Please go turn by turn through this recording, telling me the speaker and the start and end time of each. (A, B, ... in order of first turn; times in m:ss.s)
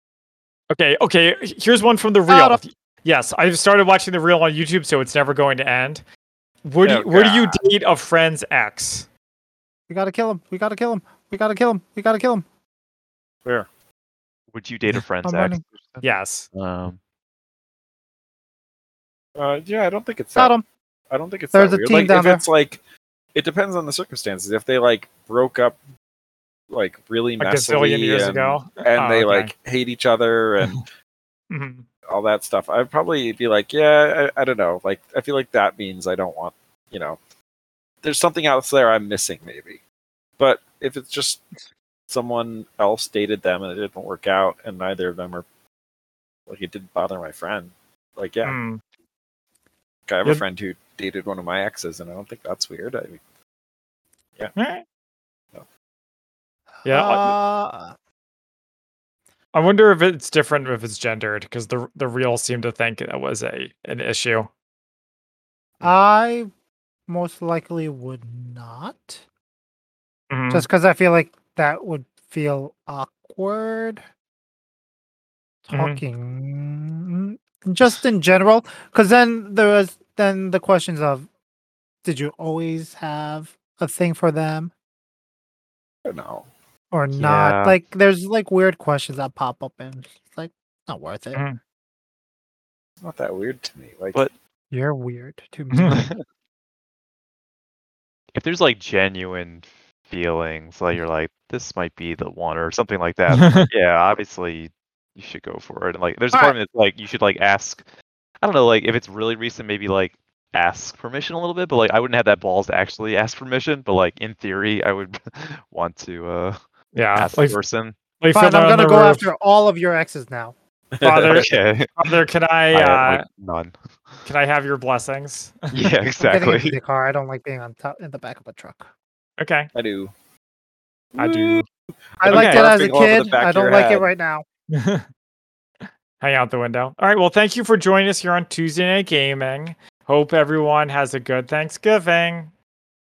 0:00.7-0:06.0 A
0:02.3-0:02.6 B
0:06.6-0:09.1 A
0:06.8-0:07.7 C
0:09.9-0:12.4 B
0:14.5-0:17.0 D
0:15.2-0:15.6 B
0:16.0-0:16.5 A
0:19.4-0:20.6 C
0:20.4-0:20.6 B
0:21.1-0:22.8 C
0:21.5-0:22.4 B
0:23.4-0:25.8 C
0:26.7-0:30.9 C
0:27.4-0:29.5 A
0:31.5-0:31.9 A
0:32.1-0:37.2 C
0:38.0-0:39.8 C
0:40.4-0:41.4 C
0:42.1-0:45.4 C
0:46.5-0:48.6 C
0:48.4-0:48.8 A
0:50.1-0:53.2 C
0:54.6-0:54.8 A
0:56.8-0:57.9 B
0:56.8-0:57.4 A
0:59.5-1:04.5 A
1:05.8-1:06.5 B
1:07.1-1:09.2 B
1:10.3-1:10.7 A
1:10.5-1:14.0 B
1:15.7-1:21.3 B
1:15.7-1:16.0 A
1:22.0-1:24.7 B
1:26.0-1:26.5 C
1:26.9-1:31.4 B
1:27.2-1:27.8 D
1:33.0-1:34.3 C
1:34.7-1:36.1 B
1:35.7-1:36.0 A
1:35.9-1:36.2 D
1:38.3-1:47.8 D
1:43.3-1:43.7 A
1:48.4-1:56.6 D
1:56.9-1:57.6 A
1:57.1-1:58.0 D
1:58.2-1:59.3 A
1:58.3-2:00.6 B
2:00.9-2:01.5 C
2:01.0-2:03.2 A
2:01.2-2:02.0 D
2:02.7-2:03.8 D
2:04.2-2:05.9 A
2:05.7-2:06.8 D
2:06.2-2:08.9 B
2:09.4-2:09.7 A
2:09.7-2:10.1 C
2:11.1-2:11.6 C
2:11.2-2:11.7 A
2:12.2-2:14.1 C
2:12.2-2:14.4 B
2:12.3-2:12.7 A
2:14.7-2:15.1 A
2:15.9-2:22.5 A